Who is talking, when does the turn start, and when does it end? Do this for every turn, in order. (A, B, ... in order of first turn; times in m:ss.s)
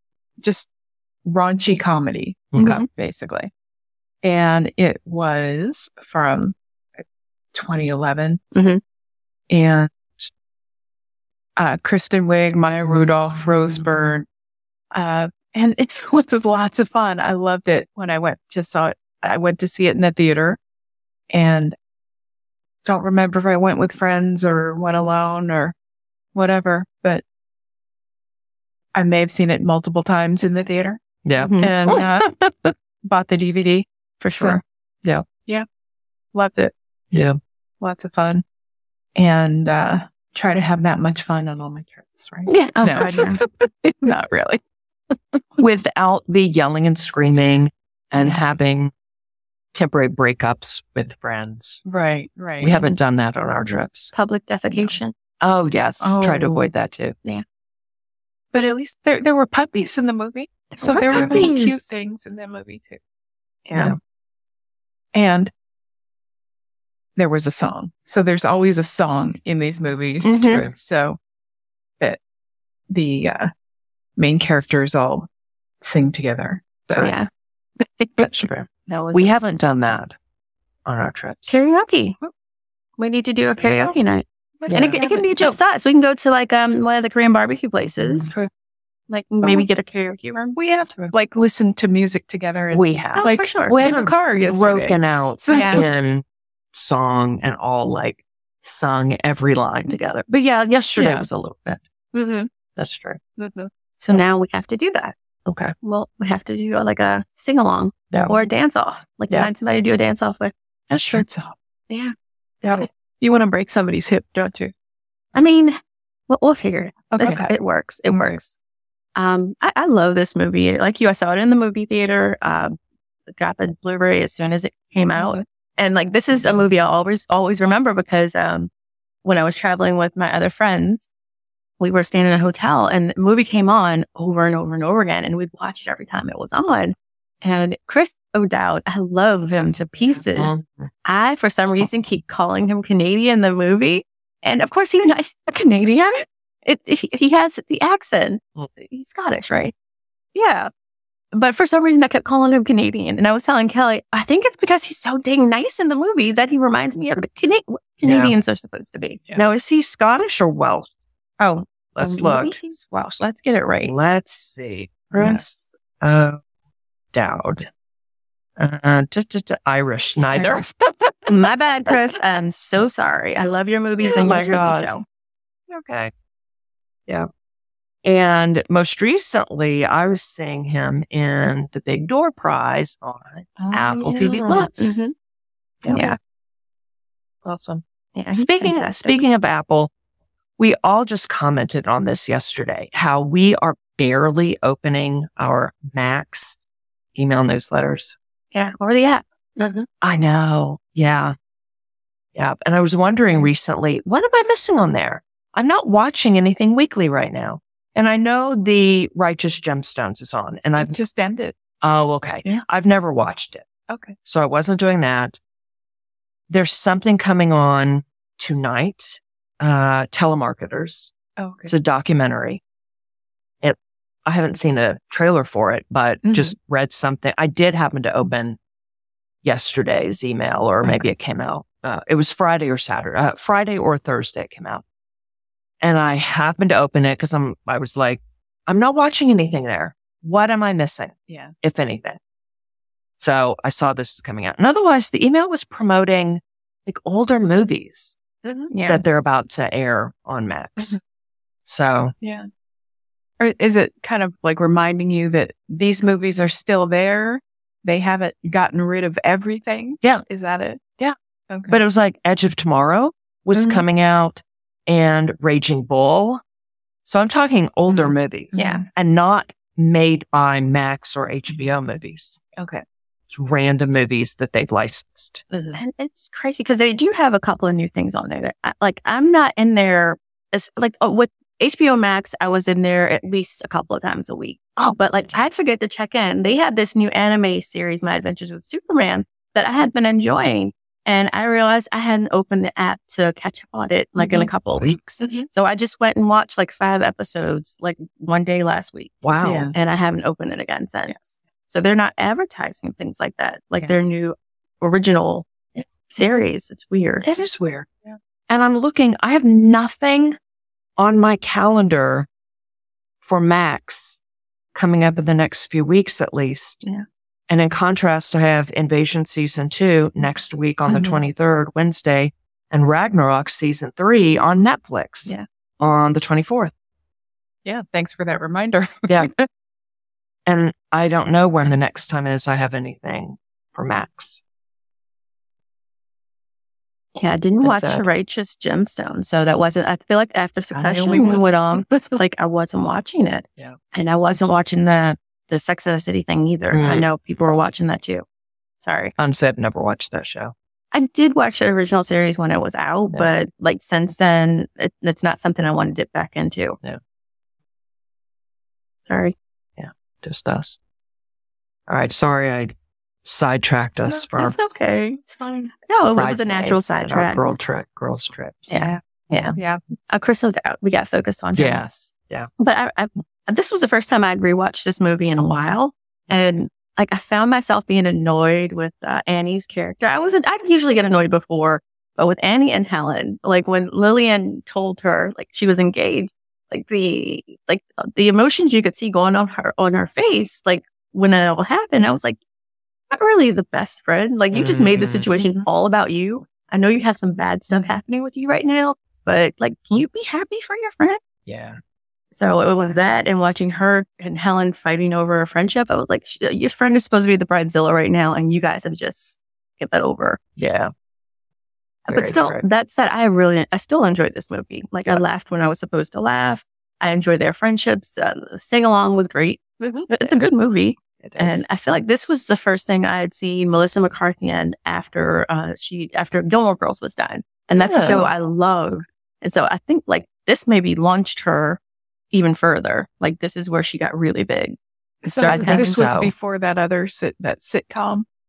0:00.4-0:00.7 A
0:01.2-0:03.5 A
0:02.5-0:02.9 B
0:02.6-0:02.9 C
0:04.2-0:06.6 A
0:07.5-0:08.4 A
0:08.5-0:08.8 C
0:09.5-0:10.1 A
0:11.6-0:14.3 A
0:14.9-0:20.6 A
0:21.3-0:21.8 A
0:22.8-0:25.7 A
0:26.4-0:27.2 A
0:29.0-0:31.0 A
0:31.2-0:32.7 B
0:31.4-0:31.8 C
0:31.6-0:32.3 A
0:33.0-0:33.8 A
0:34.2-0:34.6 C
0:36.3-0:36.7 A
0:37.1-0:37.4 B
0:37.8-0:38.4 A
0:39.2-0:44.6 A
0:42.5-0:43.4 C
0:42.7-0:43.3 B
0:45.6-0:48.9 B
0:49.7-0:51.8 B
0:51.9-0:52.8 A
0:52.6-0:54.1 B
0:54.1-0:55.1 C
0:55.4-0:57.2 B
0:56.0-0:56.7 A
0:58.5-1:03.0 A
1:00.8-1:01.8 C
1:01.1-1:01.5 B
1:05.1-1:05.5 A
1:07.2-1:11.2 A
1:10.2-1:10.6 C
1:10.5-1:10.7 B
1:12.9-1:13.5 A
1:14.2-1:15.3 A
1:15.8-1:17.1 A
1:17.0-1:17.3 C
1:17.8-1:18.3 C
1:18.2-1:20.2 B
1:18.9-1:19.3 C
1:20.9-1:21.5 B
1:21.5-1:22.2 C
1:23.0-1:28.3 C
1:23.6-1:24.0 B
1:24.6-1:25.4 A
1:24.7-1:25.0 B
1:29.1-1:30.6 C
1:30.6-1:35.9 A
1:32.7-1:41.8 B
1:33.2-1:33.8 C
1:35.5-1:35.8 C
1:41.0-1:41.3 A
1:42.1-1:42.5 C
1:42.8-1:43.2 B
1:43.5-1:45.2 C
1:45.5-1:45.7 B
1:45.8-1:50.5 C
1:50.9-1:51.5 A
1:51.9-1:52.8 C
1:52.7-1:54.7 A
1:55.3-1:55.8 C
1:56.3-1:58.6 C
1:57.1-1:57.5 A
1:58.1-1:58.4 A
1:59.2-2:02.8 C
2:03.3-2:08.7 C
2:09.2-2:11.1 C
2:11.8-2:20.5 C
2:20.4-2:20.9 B
2:21.0-2:29.7 C
2:30.4-2:30.7 C
2:31.3-2:39.2 C
2:38.0-2:38.4 B
2:39.4-2:40.9 B
2:41.4-2:43.9 C
2:42.0-2:42.6 B
2:43.8-2:46.4 B
2:45.1-2:45.4 C
2:47.1-2:47.7 B
2:48.6-2:51.3 B
2:51.3-2:55.0 C
2:54.0-2:54.9 B
2:55.7-2:56.1 B
2:58.0-3:05.0 B
3:03.6-3:04.7 A
3:04.0-3:05.1 C
3:05.8-3:06.2 B
3:05.9-3:06.2 C
3:07.4-3:09.9 B
3:08.2-3:09.2 C
3:10.6-3:16.6 B
3:17.2-3:18.2 B
3:18.5-3:19.8 C
3:20.0-3:21.4 B
3:22.4-3:31.0 B
3:30.8-3:31.6 A
3:31.8-3:33.7 B
3:33.9-3:34.2 A
3:34.2-3:35.4 B
3:36.5-3:41.1 B
3:41.4-3:41.7 A
3:41.7-3:42.6 B
3:43.6-3:48.6 B
3:46.2-3:46.5 A
3:49.4-3:54.8 B
3:50.8-3:51.1 A
3:55.8-4:02.2 B
4:03.2-4:08.2 B
4:08.4-4:08.7 A
4:08.7-4:09.0 C
4:08.9-4:11.0 B
4:11.7-4:12.1 B
4:12.2-4:12.5 A
4:13.4-4:21.8 A
4:21.7-4:26.4 B
4:23.6-4:23.8 A
4:27.1-4:32.4 B
4:27.9-4:28.8 A
4:28.6-4:28.8 C
4:32.6-4:32.8 A
4:33.3-4:35.5 B
4:35.5-4:35.8 A
4:35.8-5:07.3 C
4:54.2-4:54.5 A
4:59.2-4:59.7 B
4:59.4-4:59.7 A
5:07.2-5:07.9 B
5:08.5-5:10.4 B
5:11.0-5:12.3 B
5:13.2-5:14.2 B
5:14.7-5:16.8 B
5:17.5-5:26.7 B
5:27.6-5:29.5 A
5:30.5-5:34.4 B
5:37.2-5:48.2 C
5:37.6-5:38.0 B
5:40.8-5:41.4 A
5:46.7-5:47.1 B
5:48.8-5:49.1 C
5:49.2-5:50.5 B
5:50.9-5:56.8 C
5:59.1-5:59.4 C
5:59.8-6:00.8 B
6:01.9-6:04.6 B
6:04.4-6:07.4 C
6:05.2-6:05.6 A
6:06.1-6:09.4 B
6:08.7-6:09.6 C
6:09.6-6:09.8 A
6:10.1-6:11.8 C
6:11.6-6:12.5 B
6:12.6-6:32.4 C
6:33.1-6:41.2 C
6:34.5-6:35.3 B
6:41.5-6:41.8 B
6:42.3-6:50.4 C
6:50.6-6:50.9 B
6:52.1-7:11.8 C
6:52.1-6:52.6 B
7:01.2-7:01.6 B
7:07.7-7:08.3 B
7:12.3-7:16.0 C
7:15.2-7:18.3 A
7:15.5-7:16.3 B